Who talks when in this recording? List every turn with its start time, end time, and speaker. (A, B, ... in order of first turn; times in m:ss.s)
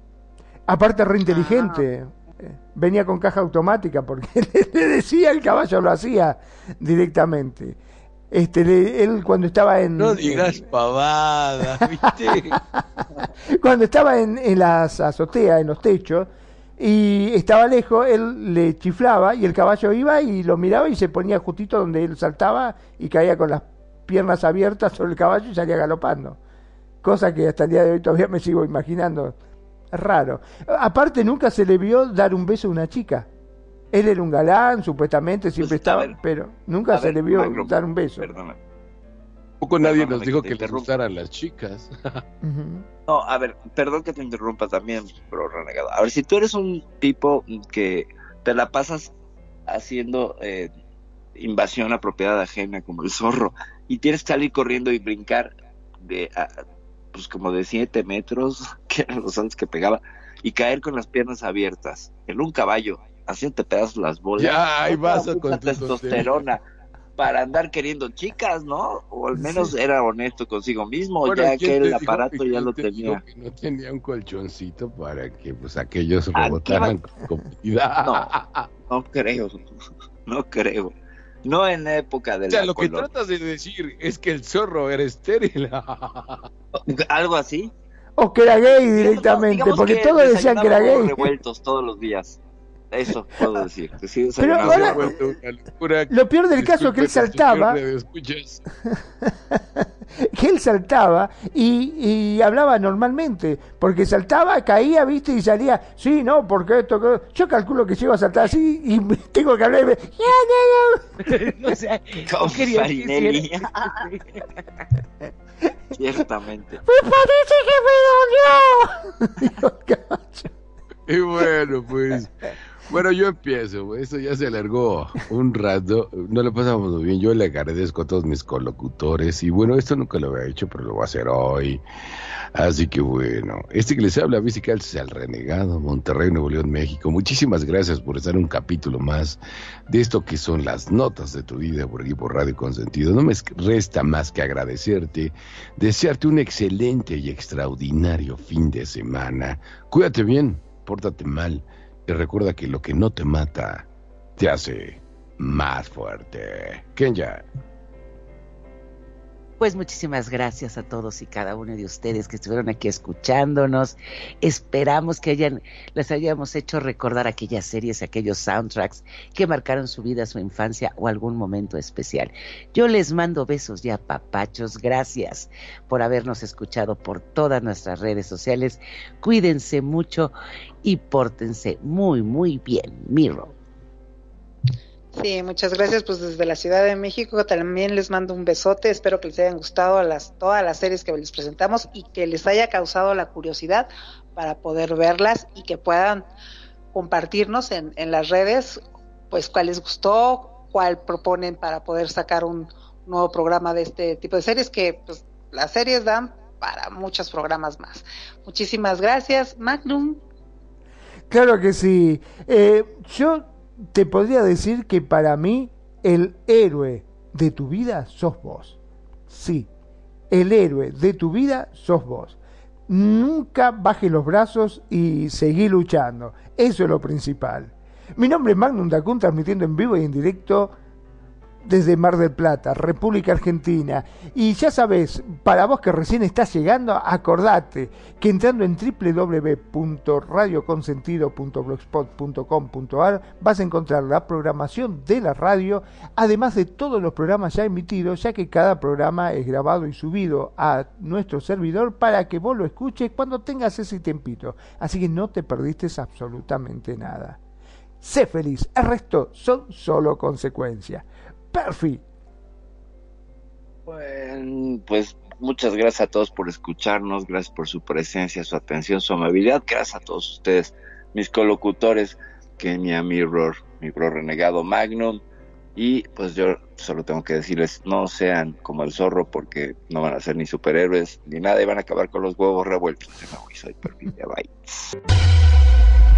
0:00.7-0:07.8 A
0:01.3-0:01.9 B
0:08.3-0:10.7 A
0:10.0-0:12.6 C
0:12.2-0:12.8 A
0:13.5-0:26.4 A
0:27.0-0:29.4 A
0:29.9-0:33.3 A
0:33.9-0:38.3 A
0:35.6-0:36.1 D
0:36.9-0:38.6 D
0:39.6-0:42.2 C
0:39.8-0:40.9 D
0:42.4-0:42.8 A
0:43.1-0:49.1 D
0:49.7-0:50.7 D
0:51.4-0:56.6 D
0:57.1-1:06.6 D
1:04.4-1:06.4 C
1:07.2-1:13.2 D
1:11.2-1:18.7 C
1:16.4-1:16.9 D
1:18.9-1:19.7 D
1:20.3-1:23.1 D
1:22.5-1:26.5 C
1:26.8-1:27.7 D
1:28.2-1:31.4 A
1:28.8-1:32.4 D
1:32.9-1:35.2 D
1:34.4-1:35.2 A
1:34.6-1:38.6 C
1:36.1-1:37.8 A
1:39.2-1:51.7 A
1:51.2-1:54.4 E
1:52.3-1:53.7 D
1:55.9-1:56.8 D
1:56.9-2:00.5 A
2:01.1-2:11.8 C
2:12.6-2:37.4 C
2:39.6-3:03.5 E
3:05.1-3:16.3 B
3:16.9-3:30.2 B
3:31.3-3:39.7 A
3:40.3-3:42.4 A
3:42.9-3:50.7 A
3:51.6-4:17.4 A
4:18.0-4:22.0 A
4:23.9-4:35.2 D
4:35.8-4:44.9 D